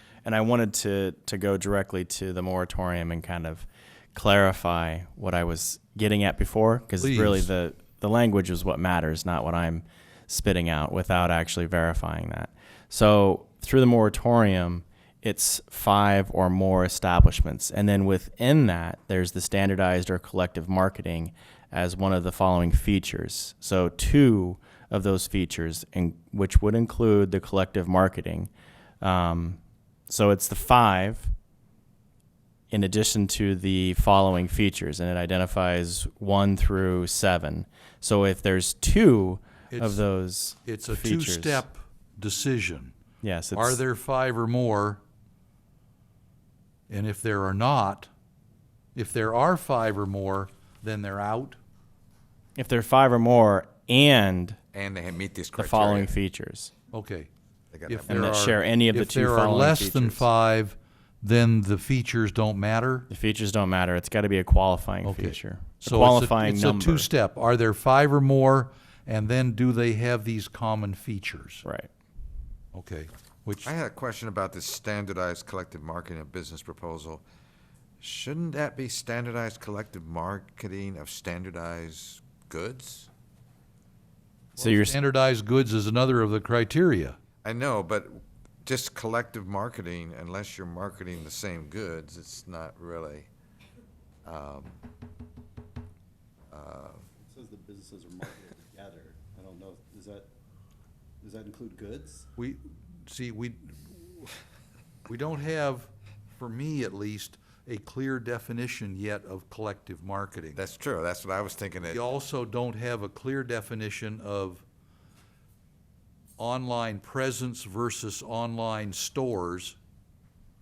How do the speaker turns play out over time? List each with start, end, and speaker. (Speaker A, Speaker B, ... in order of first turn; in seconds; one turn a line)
Speaker A: 0.2-28.5
Speaker B: 7.0-7.5
Speaker A: 29.0-31.3
Speaker A: 32.7-41.6
Speaker B: 39.7-40.0
Speaker B: 40.6-42.9
Speaker A: 43.2-43.8
Speaker B: 43.5-45.0
Speaker B: 46.9-48.1
Speaker B: 48.9-51.6
Speaker A: 52.6-54.6
Speaker C: 54.7-56.1
Speaker A: 55.6-56.7
Speaker B: 56.9-57.3
Speaker C: 57.7-58.4
Speaker B: 57.9-63.1
Speaker A: 58.1-60.2
Speaker A: 63.1-67.1
Speaker B: 65.0-71.6
Speaker A: 71.6-71.9
Speaker B: 72.7-73.7
Speaker C: 73.6-77.2
Speaker C: 78.0-83.1
Speaker B: 84.6-87.2
Speaker A: 84.6-85.0
Speaker C: 87.4-93.3
Speaker C: 94.2-94.8
Speaker C: 96.5-97.0
Speaker D: 97.2-100.3
Speaker D: 101.2-102.3
Speaker B: 102.4-104.3
Speaker B: 105.1-110.6
Speaker C: 110.5-112.0
Speaker B: 111.9-114.6
Speaker B: 116.4-119.8